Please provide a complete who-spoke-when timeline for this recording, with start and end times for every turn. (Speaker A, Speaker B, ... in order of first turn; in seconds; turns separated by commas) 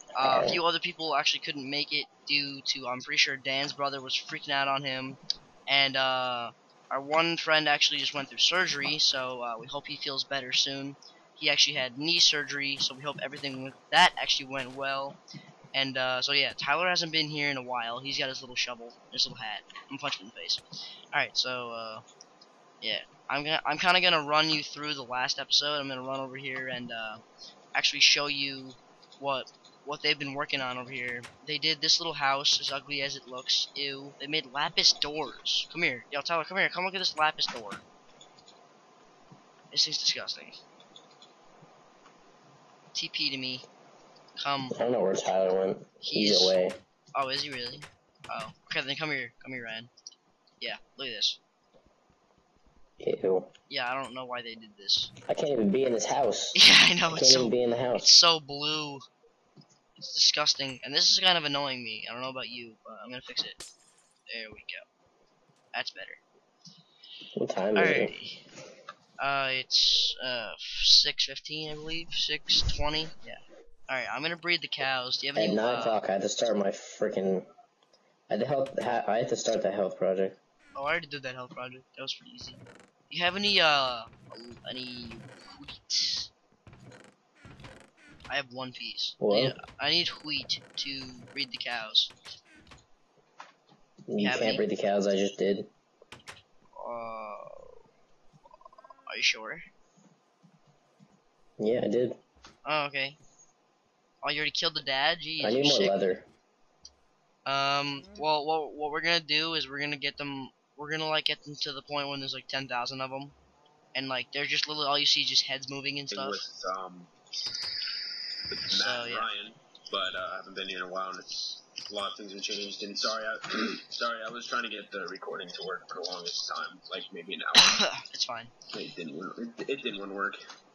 Speaker A: 0.1-15.2, Speaker B: 0.2-0.6, Speaker A: 15.7-20.6, Speaker A: 21.1-22.0, Speaker A: 22.8-27.2, Speaker A: 27.7-37.8, Speaker A: 39.7-40.6, Speaker A: 42.9-43.6, Speaker A: 44.4-44.8, Speaker B: 44.7-46.8, Speaker A: 46.0-46.6, Speaker A: 47.1-49.9, Speaker A: 50.6-51.4, Speaker B: 53.0-53.5, Speaker A: 53.7-55.1, Speaker B: 55.3-58.1, Speaker A: 56.5-59.0, Speaker A: 60.0-63.6, Speaker A: 64.3-64.8, Speaker A: 65.7-66.2, Speaker B: 67.3-68.1, Speaker A: 67.7-68.4, Speaker A: 69.2-76.0, Speaker B: 75.3-77.5, Speaker B: 78.3-80.4, Speaker A: 80.8-86.3, Speaker A: 88.3-92.1, Speaker B: 89.2-89.5, Speaker B: 94.1-95.7, Speaker A: 94.2-94.7, Speaker A: 96.8-97.8, Speaker A: 99.1-99.6, Speaker B: 101.6-102.2, Speaker A: 102.6-103.2, Speaker A: 104.2-106.0, Speaker B: 105.4-106.2, Speaker A: 107.5-113.3, Speaker A: 113.9-116.4, Speaker C: 116.1-117.1, Speaker C: 118.5-127.8, Speaker A: 118.7-119.3, Speaker A: 127.5-128.5, Speaker C: 128.7-130.4